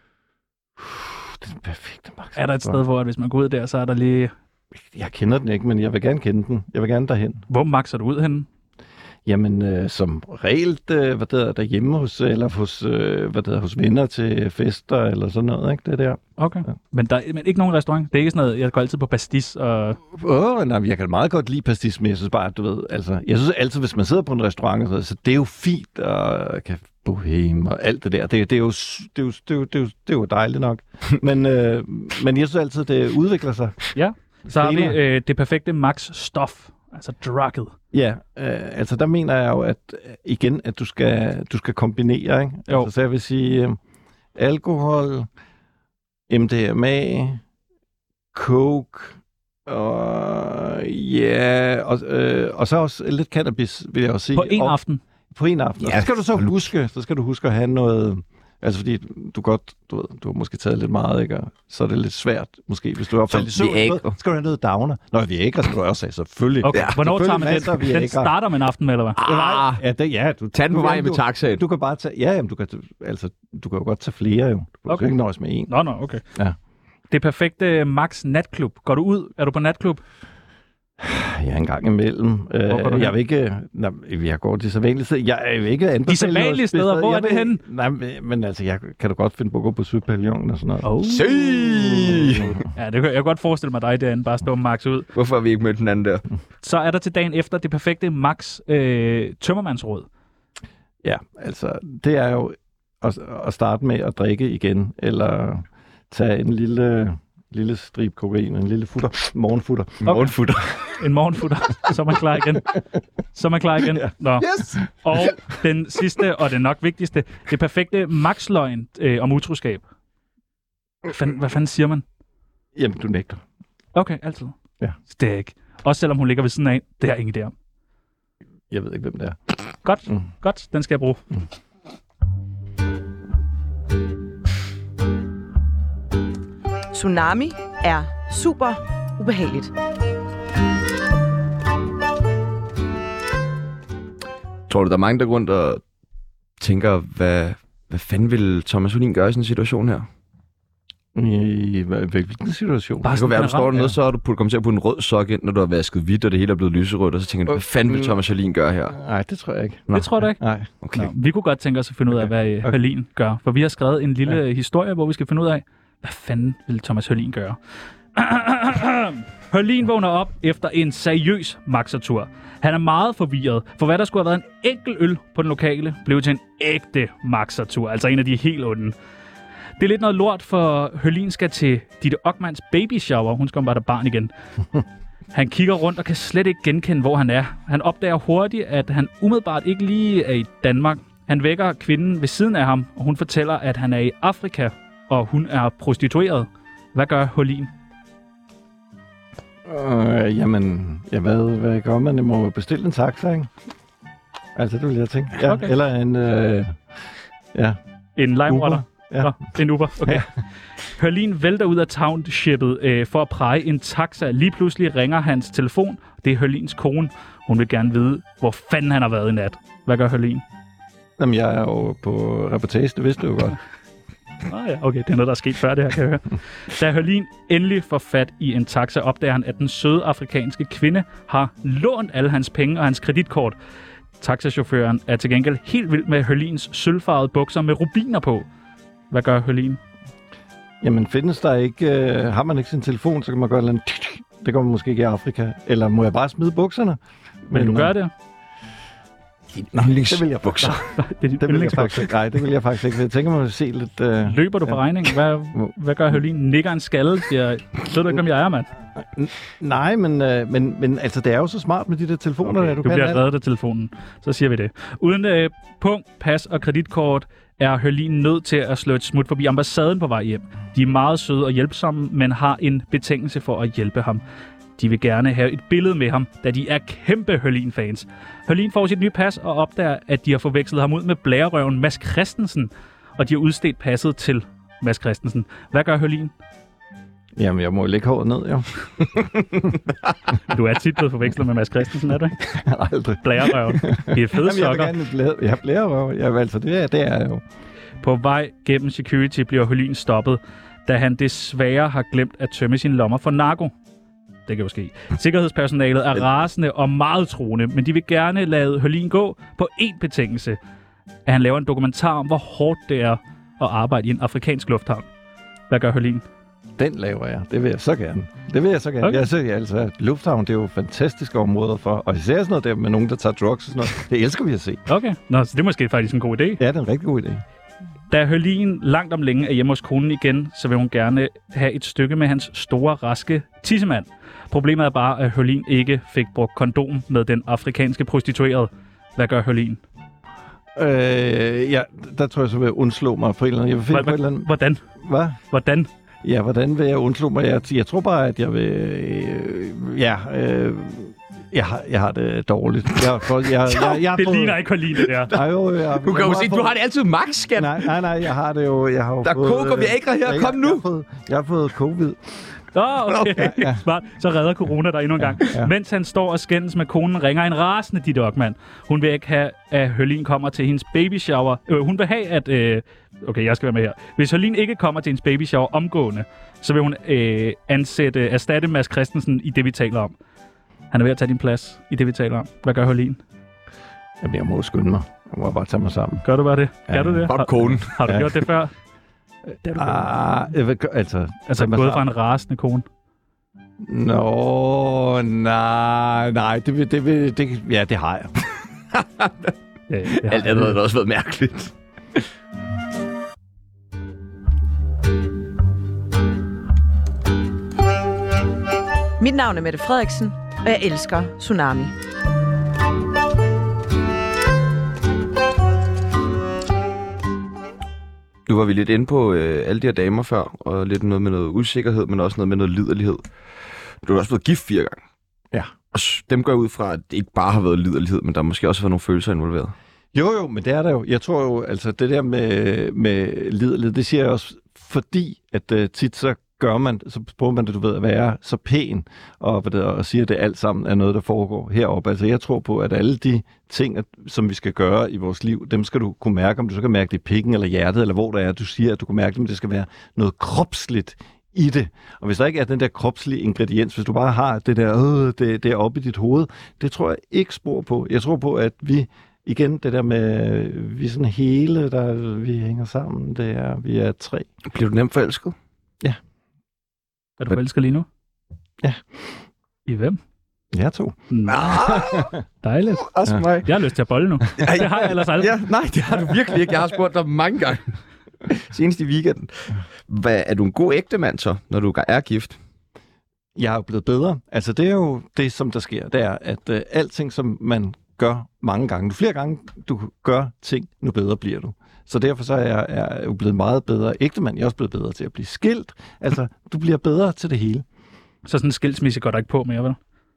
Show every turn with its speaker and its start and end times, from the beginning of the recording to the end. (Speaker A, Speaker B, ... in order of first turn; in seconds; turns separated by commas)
Speaker A: 0.8-2.8, Speaker B: 2.4-4.3, Speaker A: 4.8-7.5, Speaker B: 7.5-8.5, Speaker A: 9.3-16.7, Speaker B: 16.4-20.0, Speaker A: 20.1-33.9, Speaker B: 34.0-37.7, Speaker A: 34.5-35.0, Speaker A: 37.9-43.8, Speaker A: 44.4-45.3, Speaker A: 46.3-47.4, Speaker A: 48.3-54.8, Speaker B: 54.4-55.0, Speaker A: 55.3-68.3, Speaker C: 55.8-56.5, Speaker C: 63.3-64.1, Speaker B: 66.6-69.2, Speaker C: 69.2-69.8, Speaker A: 69.2-75.7, Speaker C: 70.5-71.6, Speaker B: 75.7-76.2, Speaker B: 77.1-80.0, Speaker A: 81.0-92.6, Speaker B: 82.7-83.1, Speaker B: 86.1-87.6, Speaker B: 90.8-91.3, Speaker C: 91.0-92.6, Speaker B: 92.7-95.1, Speaker C: 95.2-96.2, Speaker B: 96.6-100.1, Speaker A: 101.0-110.3, Speaker C: 110.0-111.0, Speaker B: 111.0-112.8, Speaker B: 113.3-119.8, Speaker A: 113.8-114.7, Speaker B: 121.1-122.0, Speaker A: 122.8-123.4, Speaker B: 123.9-127.5, Speaker A: 128.7-129.4, Speaker B: 129.8-131.2, Speaker D: 136.9-139.7, Speaker C: 144.7-145.8, Speaker C: 146.6-150.1, Speaker A: 151.2-153.2, Speaker B: 153.0-153.7, Speaker C: 153.1-159.0, Speaker A: 157.9-158.1, Speaker A: 158.9-160.8, Speaker B: 159.9-160.4, Speaker C: 160.8-161.1, Speaker B: 160.9-167.6, Speaker B: 168.1-178.9, Speaker B: 179.8-184.3, Speaker B: 185.3-197.7, Speaker A: 199.7-203.5, Speaker A: 204.6-206.8, Speaker B: 205.4-205.7, Speaker B: 208.2-210.3, Speaker A: 208.5-209.4, Speaker B: 210.8-220.4, Speaker A: 221.2-223.6, Speaker B: 224.5-233.6, Speaker B: 234.2-238.5, Speaker B: 239.1-239.8, Speaker A: 240.8-247.9, Speaker B: 247.5-248.1, Speaker C: 249.6-250.8, Speaker A: 249.7-250.8, Speaker B: 250.6-252.1, Speaker A: 251.4-254.8, Speaker B: 254.2-258.7, Speaker A: 259.0-263.2, Speaker B: 262.4-274.2, Speaker B: 274.8-286.3, Speaker A: 287.4-289.8, Speaker B: 290.5-292.4, Speaker A: 292.5-297.4, Speaker B: 293.2-294.9, Speaker B: 298.0-303.7, Speaker B: 304.5-310.6, Speaker B: 311.3-315.1, Speaker B: 315.7-316.2, Speaker A: 316.8-324.9, Speaker B: 319.0-319.3, Speaker B: 324.9-326.6, Speaker A: 326.6-327.4, Speaker B: 328.1-339.8, Speaker A: 340.8-345.4, Speaker B: 343.9-344.8, Speaker B: 345.5-345.9, Speaker A: 346.2-354.6, Speaker B: 353.6-355.3, Speaker A: 355.2-356.8, Speaker C: 355.3-357.9, Speaker A: 357.6-362.3, Speaker C: 359.2-360.8, Speaker B: 362.7-380.2, Speaker C: 363.1-363.5, Speaker A: 363.4-363.8, Speaker B: 380.9-383.2, Speaker A: 384.2-386.2, Speaker B: 386.2-388.7, Speaker A: 386.9-388.3, Speaker C: 387.3-388.2, Speaker A: 389.6-392.1, Speaker B: 391.5-392.9, Speaker A: 393.8-398.4, Speaker C: 399.0-399.3, Speaker B: 399.9-400.8, Speaker C: 400.2-402.2, Speaker D: 409.2-411.9, Speaker C: 418.5-423.2, Speaker C: 424.0-425.0, Speaker C: 425.9-429.7, Speaker A: 430.1-464.5, Speaker C: 464.7-465.6, Speaker B: 467.4-468.1, Speaker A: 468.8-469.2, Speaker B: 469.9-470.2, Speaker A: 470.7-471.2, Speaker B: 471.3-471.7, Speaker C: 471.5-472.4, Speaker A: 471.7-472.4, Speaker B: 472.6-473.1, Speaker C: 473.0-473.7, Speaker B: 473.6-475.6, Speaker C: 474.6-482.6, Speaker A: 483.6-497.9, Speaker B: 498.4-500.0